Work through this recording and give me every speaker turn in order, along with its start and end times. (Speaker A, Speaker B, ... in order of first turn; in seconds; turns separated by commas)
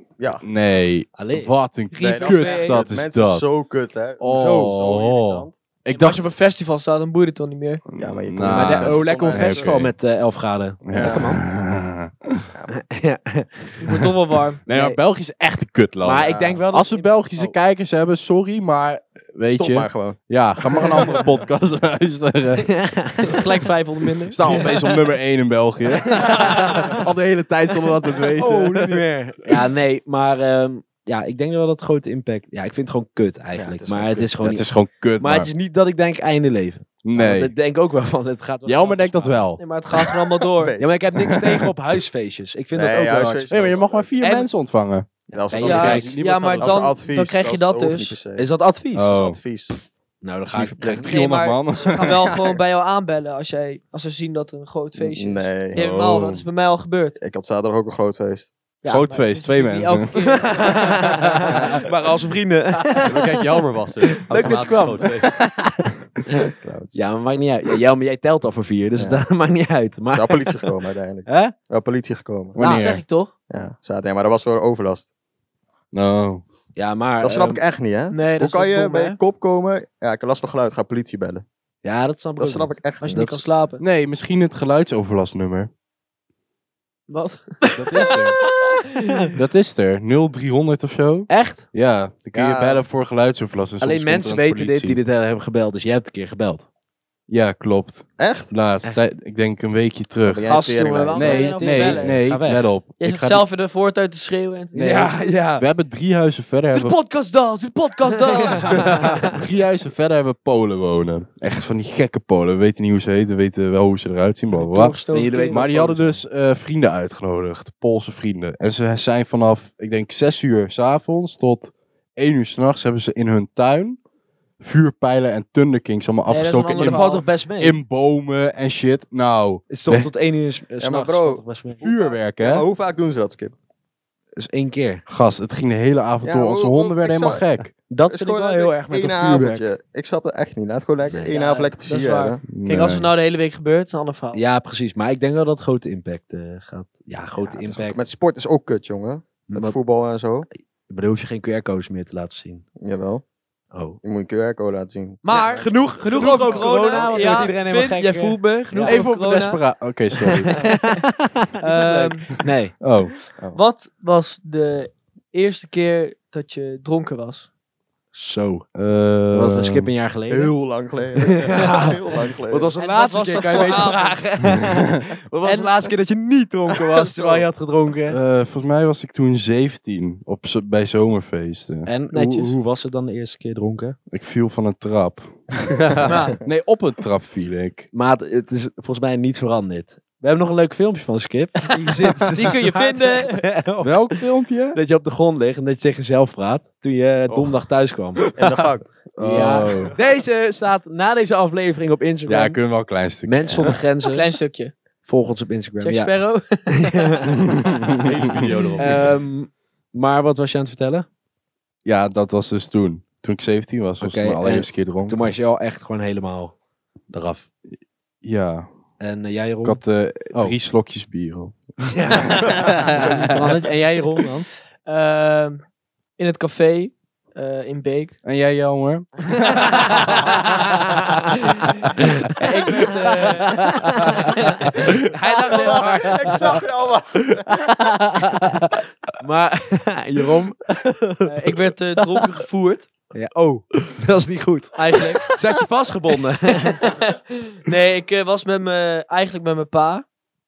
Speaker A: 0.2-0.5, Speaker B: 0.4-3.5, Speaker C: 1.1-2.8, Speaker A: 2.0-5.5, Speaker B: 4.2-6.3, Speaker C: 4.3-4.8, Speaker D: 5.9-7.8, Speaker B: 7.9-9.9, Speaker A: 8.0-9.8, Speaker C: 8.5-11.4, Speaker B: 10.8-12.5, Speaker A: 10.9-11.2, Speaker A: 12.5-12.8, Speaker C: 12.7-14.0, Speaker D: 13.8-14.6, Speaker B: 14.7-22.7, Speaker C: 14.7-15.0, Speaker C: 16.0-17.5, Speaker A: 16.2-16.6, Speaker A: 19.5-20.2, Speaker A: 20.8-21.2, Speaker C: 22.6-23.5, Speaker D: 23.2-24.6, Speaker B: 24.2-29.1, Speaker C: 24.4-24.9, Speaker C: 26.1-27.0, Speaker C: 28.4-34.7, Speaker A: 33.5-34.3, Speaker B: 34.4-35.5, Speaker C: 35.2-39.5, Speaker B: 37.0-37.5, Speaker B: 38.6-40.0, Speaker D: 39.6-40.8, Speaker A: 40.5-41.0, Speaker C: 40.8-43.5, Speaker B: 41.2-41.5, Speaker A: 42.7-44.2, Speaker B: 43.5-45.1, Speaker C: 44.2-44.5, Speaker C: 45.3-46.1, Speaker A: 45.3-48.5, Speaker D: 45.6-48.2, Speaker B: 45.8-46.6, Speaker E: 45.9-46.8, Speaker C: 48.4-49.1, Speaker B: 49.0-49.4, Speaker A: 49.0-49.8, Speaker C: 50.2-51.1, Speaker A: 50.5-51.1, Speaker B: 50.8-52.6, Speaker D: 50.8-57.2, Speaker A: 55.0-55.8, Speaker B: 55.7-56.5, Speaker A: 57.2-58.5, Speaker D: 58.8-61.1, Speaker B: 58.9-60.1, Speaker C: 60.1-63.4, Speaker B: 61.2-61.8, Speaker E: 63.0-65.4, Speaker C: 64.1-65.9, Speaker C: 66.4-70.6, Speaker B: 66.6-67.0, Speaker A: 69.0-69.2, Speaker A: 70.1-72.6, Speaker C: 71.2-71.5, Speaker B: 72.6-73.0, Speaker D: 72.6-73.3, Speaker A: 73.5-75.1, Speaker B: 75.9-76.4, Speaker C: 76.8-77.6, Speaker A: 77.2-81.5, Speaker D: 78.1-79.2, Speaker C: 81.8-83.4, Speaker A: 82.4-83.3, Speaker D: 83.0-83.8, Speaker B: 83.8-85.7, Speaker D: 87.1-89.3, Speaker B: 87.8-88.4, Speaker B: 89.2-95.0, Speaker C: 91.3-91.6, Speaker A: 92.3-92.8, Speaker C: 93.8-96.7, Speaker B: 97.3-100.5, Speaker A: 98.2-98.5, Speaker A: 100.2-101.8, Speaker D: 100.5-102.3, Speaker B: 101.1-103.4, Speaker C: 101.3-102.7, Speaker D: 103.0-105.2, Speaker C: 104.7-105.7, Speaker B: 104.8-107.0, Speaker C: 106.7-109.4, Speaker D: 107.0-109.2, Speaker B: 108.6-124.0, Speaker D: 114.5-115.7, Speaker C: 115.1-116.2, Speaker B: 124.6-127.0, Speaker D: 126.3-127.3, Speaker C: 126.7-127.8, Speaker B: 127.6-130.1, Speaker C: 129.7-131.8, Speaker A: 130.8-133.5, Speaker B: 131.8-132.7, Speaker C: 134.4-135.0, Speaker B: 135.1-137.7, Speaker A: 136.2-137.4, Speaker C: 137.9-139.7, Speaker A: 138.1-142.4, Speaker C: 141.1-141.3, Speaker D: 141.3-144.4, Speaker B: 142.5-143.1, Speaker C: 144.3-148.0, Speaker A: 147.5-150.5, Speaker C: 149.5-149.8, Speaker C: 150.9-152.6, Speaker A: 152.8-153.2, Speaker C: 153.7-154.0, Speaker A: 154.0-157.6, Speaker D: 155.2-159.6, Speaker C: 155.3-159.1, Speaker B: 158.8-160.6, Speaker D: 160.5-161.0, Speaker C: 160.5-162.7, Speaker D: 161.6-162.4, Speaker B: 162.8-163.1, Speaker D: 163.5-167.5, Speaker C: 168.1-168.7, Speaker B: 168.8-169.9, Speaker C: 169.3-170.6, Speaker A: 170.3-172.7, Speaker C: 171.2-178.2, Speaker D: 172.8-174.4, Speaker D: 175.4-175.9, Speaker A: 177.0-177.5, Speaker B: 178.1-181.9, Speaker C: 181.9-184.0, Speaker D: 182.1-182.6, Speaker B: 184.1-187.9, Speaker D: 186.0-186.4, Speaker C: 187.9-194.2, Speaker D: 191.8-193.4, Speaker B: 193.8-194.8, Speaker C: 194.7-198.6, Speaker E: 197.3-197.6, Speaker A: 198.3-198.9, Speaker B: 199.2-199.9, Speaker C: 199.2-202.6, Speaker B: 202.3-203.8, Speaker C: 203.2-204.3, Speaker D: 204.0-204.7, Speaker C: 205.1-206.2, Speaker D: 205.8-208.1, Speaker C: 206.7-207.4, Speaker B: 207.4-208.0, Speaker E: 207.9-209.1, Speaker D: 208.8-209.1, Speaker C: 208.8-211.1, Speaker B: 211.8-215.3, Speaker C: 214.0-216.5, Speaker C: 217.1-217.5, Speaker B: 218.2-218.7, Speaker C: 219.0-219.8, Speaker B: 219.6-223.2, Speaker C: 221.9-224.5, Speaker D: 224.9-225.6, Speaker D: 226.2-228.2, Speaker B: 228.2-230.5, Speaker D: 229.6-230.3, Speaker C: 229.8-230.1, Speaker D: 231.5-236.2, Speaker B: 233.5-233.9, Speaker C: 233.9-236.6, Speaker A: 235.3-237.5, Speaker B: 238.2-238.6, Speaker C: 239.2-241.5, Speaker D: 241.2-242.9, Speaker C: 243.1-246.8, Speaker D: 244.8-245.3, Speaker D: 246.6-250.1